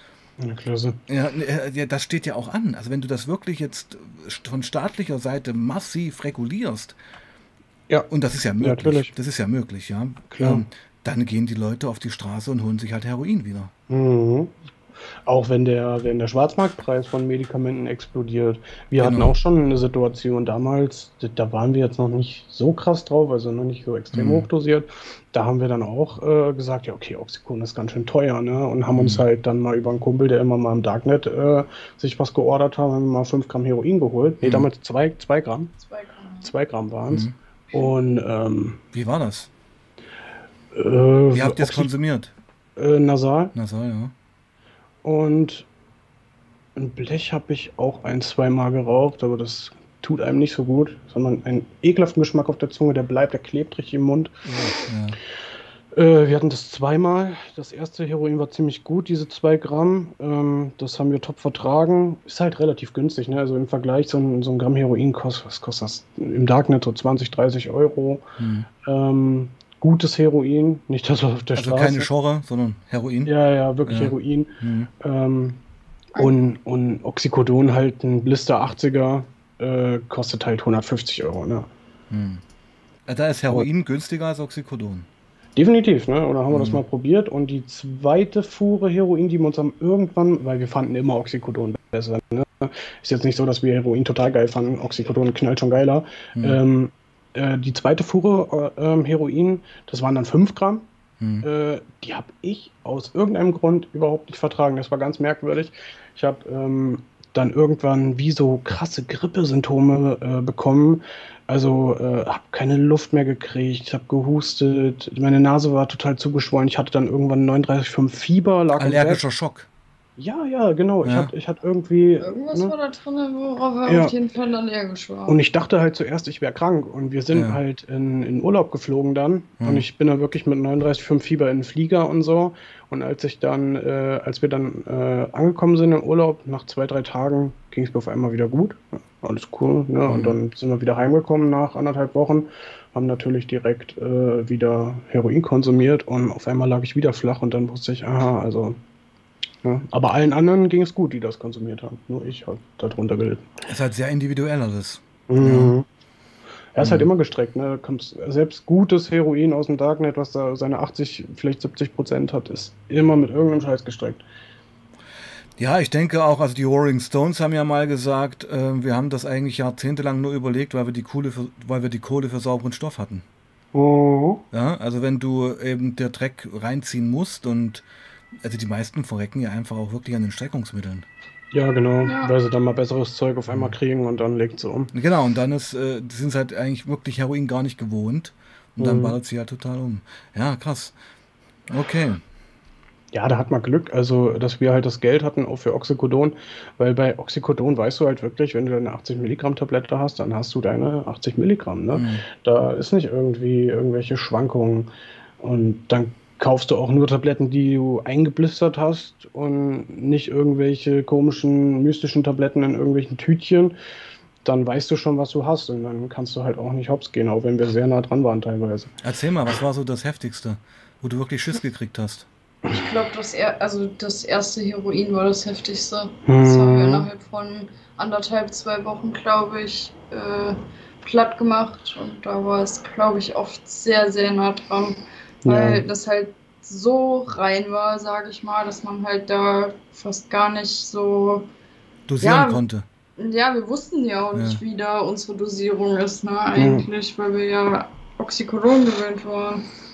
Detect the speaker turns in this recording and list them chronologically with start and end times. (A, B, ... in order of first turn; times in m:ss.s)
0:00.4-0:01.0 A
0:01.1-0:07.0 B
0:07.9-0:09.1 A
0:08.1-0:13.7 B
0:10.3-0:10.6 A
0:13.9-0:14.5 A
0:15.2-0:35.7 A
0:19.0-0:19.3 B
0:24.1-0:24.5 B
0:28.9-0:29.2 B
0:34.4-0:34.7 B
0:35.8-0:36.5 C
0:36.4-0:38.8 A
0:38.9-0:39.5 B
0:40.7-0:41.9 A
0:41.3-0:42.3 B
0:42.8-0:43.5 A
0:43.5-0:44.1 B
0:45.0-0:45.7 A
0:46.8-0:54.7 A
0:54.5-0:55.2 B
0:55.9-1:08.2 A
1:08.4-1:08.7 B
1:08.8-1:12.1 A
1:11.6-1:13.3 B
1:13.2-1:15.6 A
1:13.8-1:14.9 B
1:16.2-1:21.7 A
1:22.1-1:22.4 B
1:23.0-1:25.1 B
1:25.6-1:40.8 A
1:26.5-1:26.8 B
1:41.2-1:41.4 B
1:41.4-1:59.2 A
1:58.8-1:59.7 B
2:00.2-2:02.7 A
2:01.0-2:01.3 B
2:02.2-2:05.4 C
2:03.8-2:04.1 A
2:05.3-2:28.8 A
2:07.3-2:07.6 B
2:09.6-2:09.8 B
2:20.1-2:20.4 B
2:29.6-2:33.5 A
2:33.6-2:35.7 B
2:35.3-2:35.8 A
2:36.7-2:44.2 A
2:36.8-2:37.1 B
2:45.6-2:53.2 B
2:53.7-2:54.4 A
2:54.5-2:57.8 B
2:58.4-3:01.0 B
3:01.5-3:04.9 A
3:02.1-3:02.3 C
3:04.9-3:10.9 B
3:08.8-3:09.2 A
3:11.7-3:12.2 B
3:13.1-3:24.9 A
3:21.9-3:22.2 B
3:25.4-3:33.7 A
3:34.4-3:39.0 A
3:39.0-3:42.3 B
3:42.7-4:01.5 C
3:46.2-3:47.1 A
3:55.4-3:55.8 A
4:02.1-4:02.8 B
4:02.2-4:02.6 C
4:03.2-4:09.6 C
4:04.3-4:04.6 B
4:06.5-4:06.9 A